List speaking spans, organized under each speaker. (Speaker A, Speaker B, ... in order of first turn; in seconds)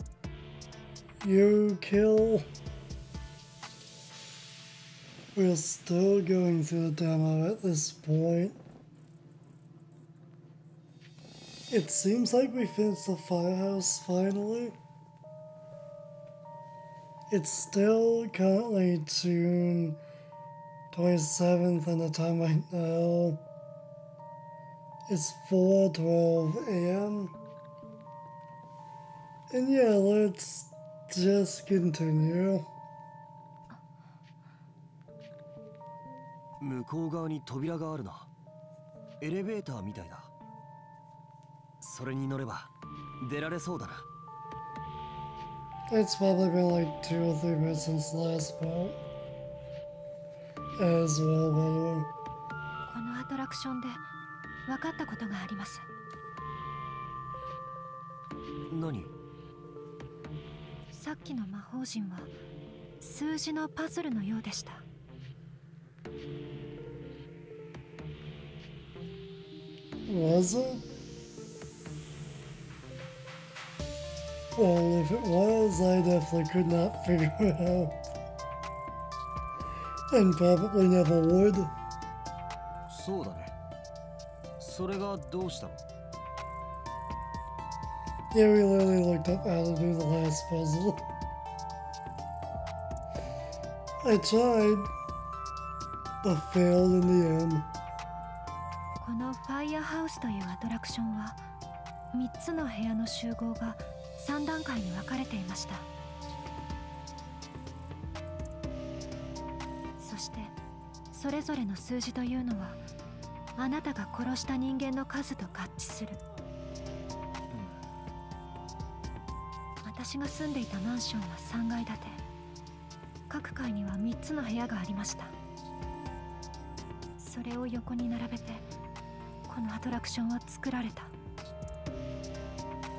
Speaker A: 1.2-2.5, 5.3-8.6, 11.7-14.8, 17.3-20.0, 20.9-23.4, 25.1-27.3, 29.5-32.7, 45.9-49.0, 50.8-52.1, 70.1-70.8, 74.5-78.0, 80.1-81.7, 88.3-91.0, 94.0-94.9, 96.2-97.7
Speaker B: 36.6-38.3, 39.2-40.3, 41.8-44.1, 58.7-59.1, 82.9-83.5, 84.6-85.8
Speaker C: 52.9-54.0, 54.7-55.9, 60.9-62.3, 63.0-64.8, 99.0-101.4, 102.1-105.9, 110.0-110.5, 111.1-112.8, 113.6-116.2, 119.8-122.2, 123.3-125.3, 127.2-128.7, 129.5-131.1